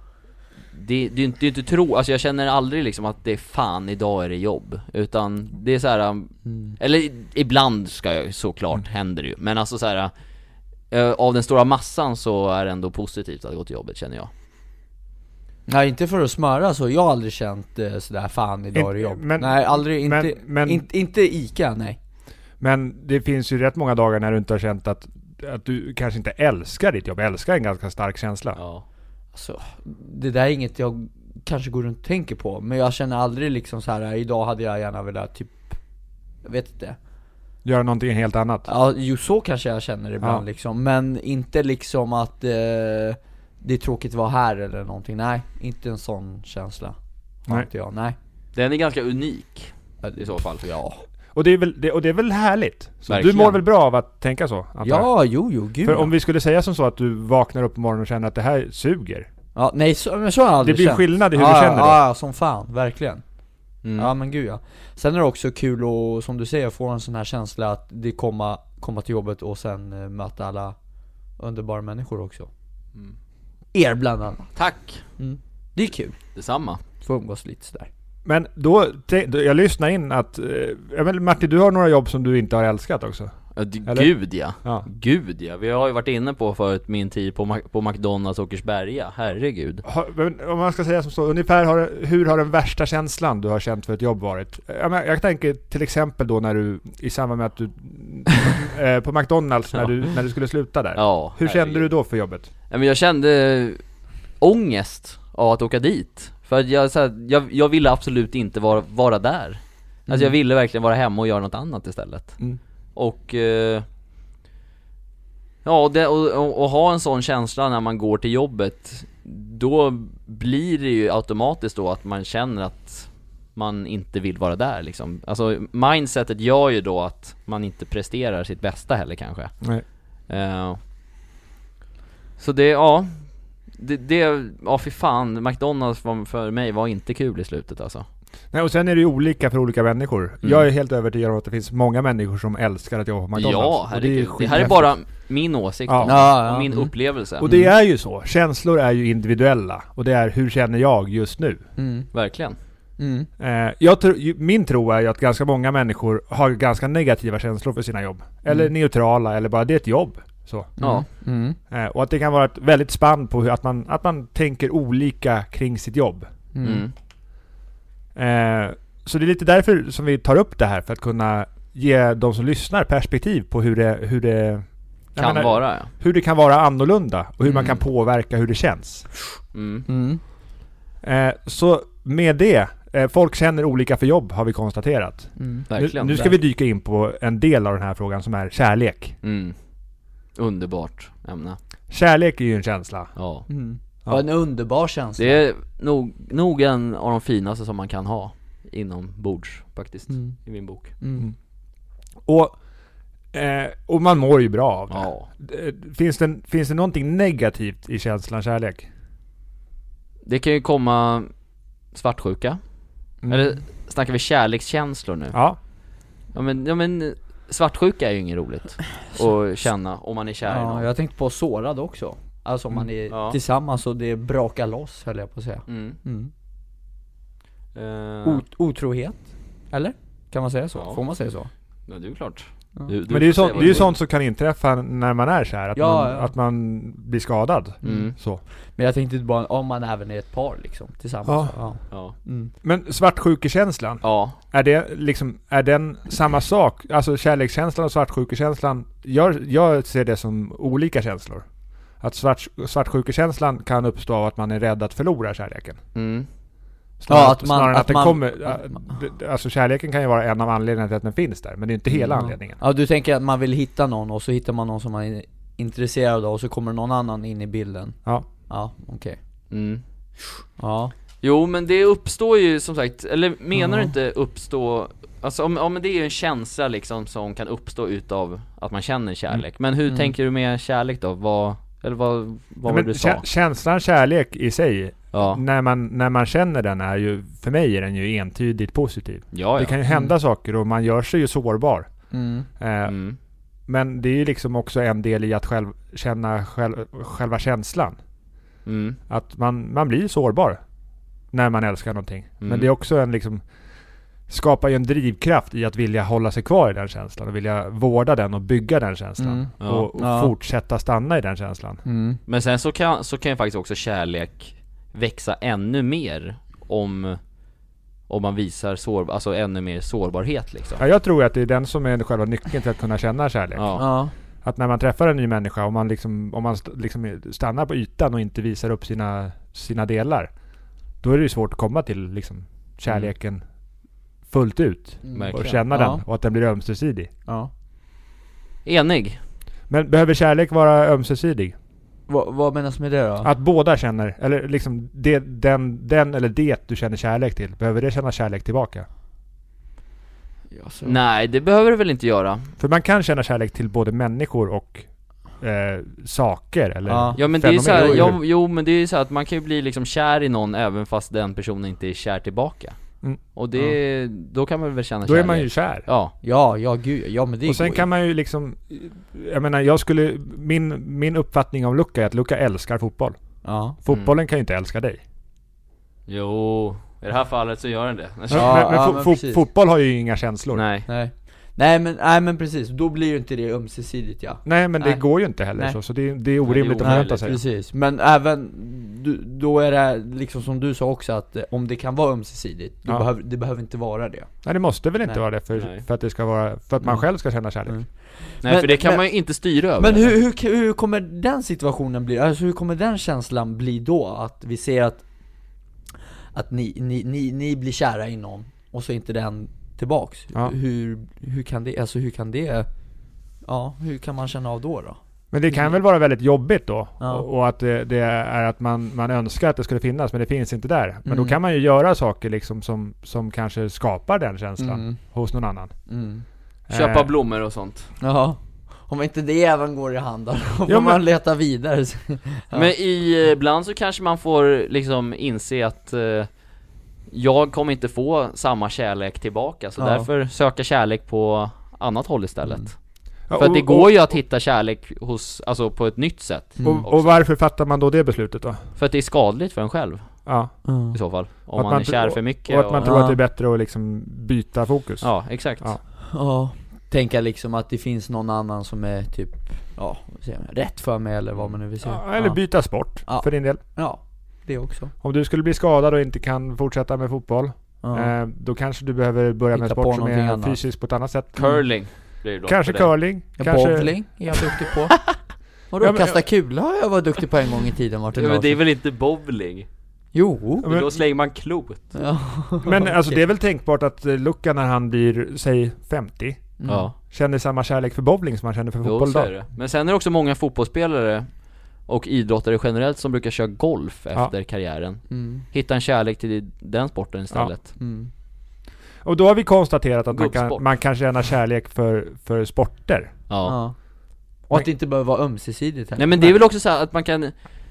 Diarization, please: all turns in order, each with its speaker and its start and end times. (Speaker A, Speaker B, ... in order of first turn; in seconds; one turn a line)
Speaker A: 0.7-10.1
Speaker B: 6.5-6.7
Speaker A: 10.9-14.3
Speaker B: 15.7-22.0
Speaker C: 18.7-20.8
Speaker C: 22.6-28.6
Speaker A: 28.6-28.8
Speaker B: 29.3-35.8
Speaker B: 36.4-37.0
Speaker C: 37.6-38.7
Speaker B: 38.6-48.1
Speaker A: 48.5-50.6
Speaker B: 50.0-51.0
Speaker C: 51.3-55.1
Speaker A: 53.1-53.6
Speaker B: 54.8-56.1
Speaker C: 55.8-59.3
Speaker B: 59.5-63.2
Speaker C: 60.6-62.0
Speaker A: 63.8-64.1
Speaker B: 63.9-70.7
Speaker B: 71.4-72.5
Speaker B: 73.7-74.5
Speaker A: 74.5-75.0
Speaker B: 75.2-76.2
Speaker A: 76.3-76.8
Speaker B: 77.0-77.9
Speaker C: 78.2-83.3
Speaker A: 83.5-89.8
Speaker C: 89.8-102.5
Speaker A: 100.9-101.9
Speaker A: 102.7-103.8
Speaker A: 104.4-112.4
Speaker B: 110.1-110.3
Speaker A: 113.0-113.8
Speaker A: 115.6-129.5
Speaker A: 130.3-130.8
Speaker A: 132.4-138.1
Speaker C: 138.5-144.9
Speaker A: 143.3-147.5
Speaker C: 145.9-146.2
Speaker B: 146.0-147.7
Speaker C: 147.4-151.6
Speaker B: 151.8-152.1
Speaker A: 152.1-152.6
Speaker B: 153.0-153.3
Speaker C: 153.4-160.7
Speaker B: 160.8-161.6
Speaker A: 160.8-161.1
Speaker C: 161.7-166.3
Speaker B: 166.5-166.8
Speaker A: 166.6-166.9
Speaker C: 168.1-179.1
Speaker A: 175.2-175.9
Speaker A: 177.4-177.8
Speaker A: 179.5-179.9
Speaker B: 179.9-180.2
Speaker C: 181.0-189.2
Speaker B: 185.4-186.3
Speaker A: 185.7-186.3
Speaker A: 189.2-189.6
Speaker A: 190.3-191.6
Speaker C: 191.9-193.1
Speaker A: 193.2-193.4
Speaker B: 193.5-195.4
Speaker A: 195.2-200.9
Speaker B: 200.1-200.4
Speaker B: 201.0-201.3
Speaker C: 202.2-202.6
Speaker C: 203.3-208.9
Speaker A: 204.9-205.3
Speaker A: 210.2-211.3
Speaker A: 211.9-212.6
Speaker A: 213.2-215.4
Speaker C: 215.3-215.6
Speaker A: 216.3-220.9
Speaker B: 220.4-226.3
Speaker A: 223.1-223.4
Speaker A: 225.7-226.0
Speaker A: 227.7-228.4
Speaker B: 228.2-231.5
Speaker A: 230.7-231.0
Speaker A: 231.9-233.9
Speaker C: 233.1-238.4
Speaker B: 233.5-233.9
Speaker B: 235.7-236.3
Speaker B: 237.8-238.1
Speaker A: 237.8-238.1
Speaker B: 238.8-242.5
Speaker C: 241.2-241.6
Speaker C: 242.6-251.4
Speaker A: 244.0-244.4
Speaker C: 252.0-255.8
Speaker A: 255.9-256.3
Speaker C: 257.0-262.6
Speaker B: 257.1-258.9
Speaker A: 261.9-262.3
Speaker B: 262.2-269.2
Speaker A: 269.5-269.8
Speaker B: 270.6-270.9
Speaker A: 271.2-283.2
Speaker B: 273.6-273.9
Speaker B: 279.9-280.1
Speaker C: 282.6-291.9
Speaker A: 285.1-285.4
Speaker A: 289.3-289.8
Speaker B: 289.9-290.1
Speaker B: 292.1-292.5
Speaker C: 292.6-292.9
Speaker A: 292.9-293.2
Speaker C: 293.7-297.9
Speaker A: 298.6-299.0
Speaker C: 299.1-300.6
Speaker C: 301.3-303.4
Speaker A: 302.4-302.7
Speaker C: 304.3-311.8
Speaker B: 309.2-310.3
Speaker A: 309.6-309.9
Speaker B: 311.8-312.2
Speaker A: 312.3-317.2
Speaker A: 318.1-320.8
Speaker C: 320.8-323.8
Speaker A: 323.5-323.8
Speaker B: 323.8-324.1
Speaker C: 324.4-330.3
Speaker C: 331.0-333.4
Speaker C: 334.3-337.1
Speaker B: 335.0-336.0
Speaker A: 335.1-335.6
Speaker A: 338.6-339.2
Speaker C: 339.7-341.5
Speaker B: 342.1-343.3
Speaker C: 343.2-348.9
Speaker B: 350.5-351.0
Speaker A: 350.8-352.5
Speaker C: 352.6-354.9
Speaker C: 355.4-358.2
Speaker B: 356.9-358.1
Speaker A: 357.1-366.1
Speaker C: 365.0-365.9
Speaker B: 366.2-367.9
Speaker C: 367.4-373.2
Speaker B: 373.4-373.8
Speaker C: 373.8-375.0
Speaker A: 376.1-378.6
Speaker C: 378.3-380.6
Speaker B: 378.3-379.4
Speaker A: 380.5-380.9
Speaker B: 380.9-385.8
Speaker C: 384.4-387.4
Speaker A: 386.4-387.4
Speaker B: 386.8-394.3
Speaker C: 394.4-397.8
Speaker A: 395.5-395.8
Speaker B: 396.8-397.1
Speaker B: 397.7-399.1
Speaker A: 398.4-400.1
Speaker B: 399.8-405.0
Speaker B: 406.3-412.7
Speaker B: 413.4-415.0
Speaker C: 415.3-425.7
Speaker B: 417.0-417.2
Speaker B: 421.1-421.4
Speaker B: 424.6-425.0
Speaker B: 425.9-426.2
Speaker C: 426.7-427.1
Speaker A: 426.7-427.9
Speaker B: 428.0-432.7
Speaker C: 430.7-431.0
Speaker A: 432.5-436.3
Speaker A: 437.1-442.8
Speaker B: 439.8-440.1
Speaker C: 443.3-444.0
Speaker A: 443.3-447.1
Speaker B: 446.6-446.9
Speaker C: 446.6-448.6
Speaker A: 448.8-450.2
Speaker C: 450.2-450.5
Speaker B: 450.6-451.0
Speaker A: 450.9-452.9
Speaker C: 451.6-455.8
Speaker B: 452.8-453.2
Speaker A: 455.0-455.7
Speaker B: 456.0-462.4
Speaker C: 461.8-463.6
Speaker B: 463.0-464.9
Speaker C: 465.0-471.4
Speaker B: 467.8-468.1
Speaker B: 469.5-470.6
Speaker A: 471.3-472.9
Speaker B: 471.4-471.6
Speaker C: 472.4-473.9
Speaker B: 473.4-475.0
Speaker B: 475.7-478.6
Speaker C: 475.8-476.2
Speaker A: 478.1-479.7
Speaker B: 480.1-480.7
Speaker C: 480.6-480.9
Speaker A: 480.6-482.0
Speaker B: 481.9-483.2
Speaker C: 482.6-489.3
Speaker B: 486.6-486.9
Speaker A: 486.7-486.9
Speaker A: 488.8-491.3
Speaker A: 491.9-497.7
Speaker B: 495.1-495.4
Speaker B: 497.8-498.1
Speaker C: 499.0-503.1
Speaker A: 500.1-500.6
Speaker A: 503.3-503.6
Speaker B: 503.4-503.8
Speaker B: 504.5-506.4
Speaker A: 506.0-507.3